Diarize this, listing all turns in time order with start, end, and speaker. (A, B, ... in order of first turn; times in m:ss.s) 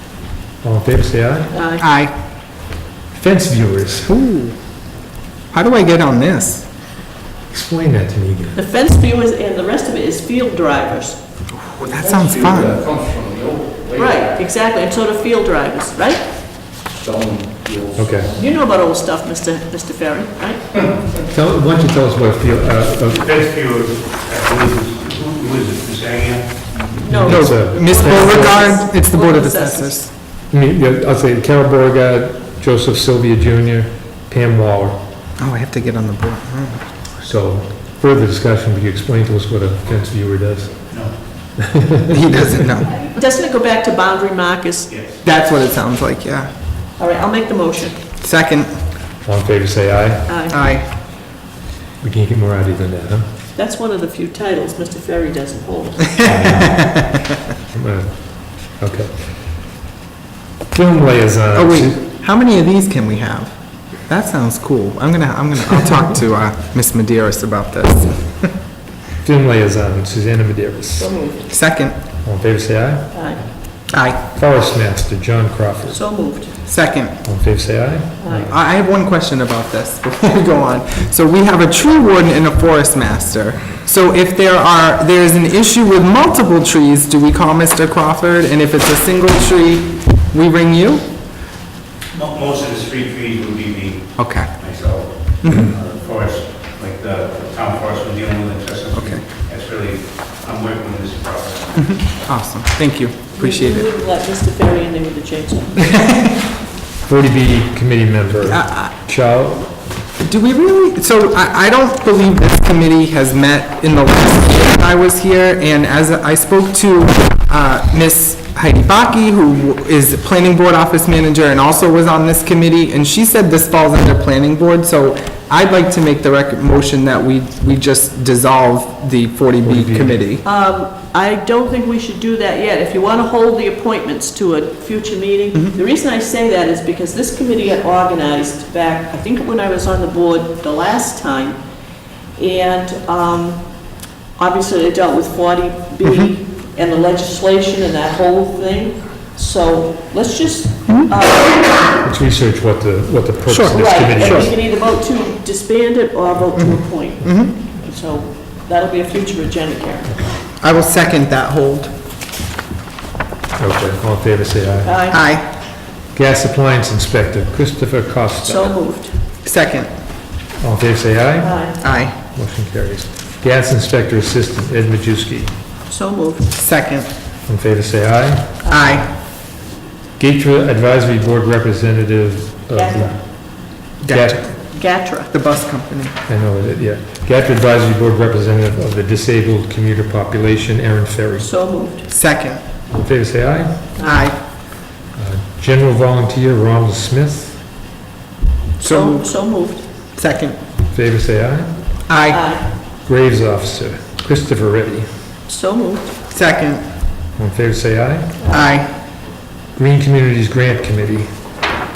0:00.6-0:01.6 A
0:01.5-0:01.8 B
0:01.8-0:02.1 C
0:03.1-0:04.2 A
0:04.1-0:04.5 C
0:05.5-0:06.6 C
0:07.5-0:08.6 A
0:08.5-0:11.2 B
0:11.5-0:12.9 C
0:11.9-0:14.2 D
0:14.0-0:16.3 B
0:17.0-0:18.4 D
0:18.0-0:18.3 A
0:18.4-0:20.8 B
0:21.3-0:23.4 A
0:23.3-0:26.7 E
0:27.0-0:30.0 B
0:27.1-0:28.8 A
0:27.2-0:30.1 C
0:30.5-0:35.0 A
0:35.4-0:36.9 C
0:37.2-0:40.9 A
0:41.6-0:42.6 A
0:42.1-0:43.0 C
0:43.0-0:44.9 B
0:44.9-0:45.2 E
0:45.2-0:46.5 C
0:47.0-0:48.0 B
0:48.2-0:48.8 C
0:49.2-0:50.4 A
0:50.3-0:50.6 B
0:50.5-0:50.9 C
0:52.0-0:53.3 A
0:53.6-0:56.2 B
0:56.2-0:59.5 A
1:00.7-1:02.0 A
1:01.5-1:03.5 C
1:04.1-1:08.5 C
1:09.2-1:11.1 A
1:11.0-1:11.4 B
1:11.5-1:12.0 C
1:12.2-1:13.3 A
1:13.1-1:13.4 B
1:13.9-1:14.2 C
1:14.3-1:16.0 A
1:15.9-1:16.5 B
1:16.6-1:17.2 C
1:17.2-1:18.5 A
1:18.2-1:18.5 B
1:18.3-1:31.1 C
1:32.1-1:35.1 E
1:34.2-1:34.5 C
1:35.4-1:35.8 C
1:35.6-1:41.8 E
1:39.0-1:39.2 C
1:41.8-1:43.9 C
1:43.4-1:45.9 B
1:45.8-1:46.4 C
1:47.0-1:49.7 A
1:48.4-1:48.9 C
1:50.2-2:10.4 C
2:09.6-2:10.2 A
2:10.4-2:21.6 B
2:22.4-2:23.6 B
2:24.4-2:31.8 B
2:26.0-2:26.3 C
2:32.0-2:34.6 A
2:33.5-2:34.5 C
2:33.7-2:40.1 B
2:36.6-2:37.5 C
2:40.6-2:41.9 C
2:43.6-2:45.0 A
2:44.8-2:45.2 B
2:45.1-2:45.4 C
2:46.1-2:48.8 A
2:48.4-2:49.2 B
2:49.4-2:49.9 C
2:50.6-2:55.5 A
2:51.4-2:51.8 B
2:51.8-2:52.1 C
2:55.9-2:56.5 B
2:56.5-2:57.1 C
2:57.4-2:58.6 A
2:58.6-2:59.0 B
2:58.7-2:59.1 C
3:00.2-3:03.6 A
3:02.7-3:03.2 B
3:04.0-3:04.5 C
3:04.1-3:04.4 A
3:04.7-3:05.3 B
3:05.3-3:06.1 C
3:06.3-3:11.5 A
3:11.4-3:12.1 B
3:12.1-3:12.6 C
3:12.9-3:14.0 A
3:14.0-3:14.3 B
3:14.0-3:14.4 C
3:15.2-3:17.6 A
3:18.8-3:19.8 B
3:18.8-3:19.3 C
3:20.2-3:20.6 C
3:20.9-3:21.7 A
3:22.1-3:22.5 C
3:22.3-3:22.7 B
3:23.0-3:25.1 A
3:25.5-3:26.1 B
3:26.3-3:26.8 C
3:27.4-3:28.4 A
3:28.4-3:28.7 B
3:28.5-3:28.9 C
3:29.7-3:31.3 A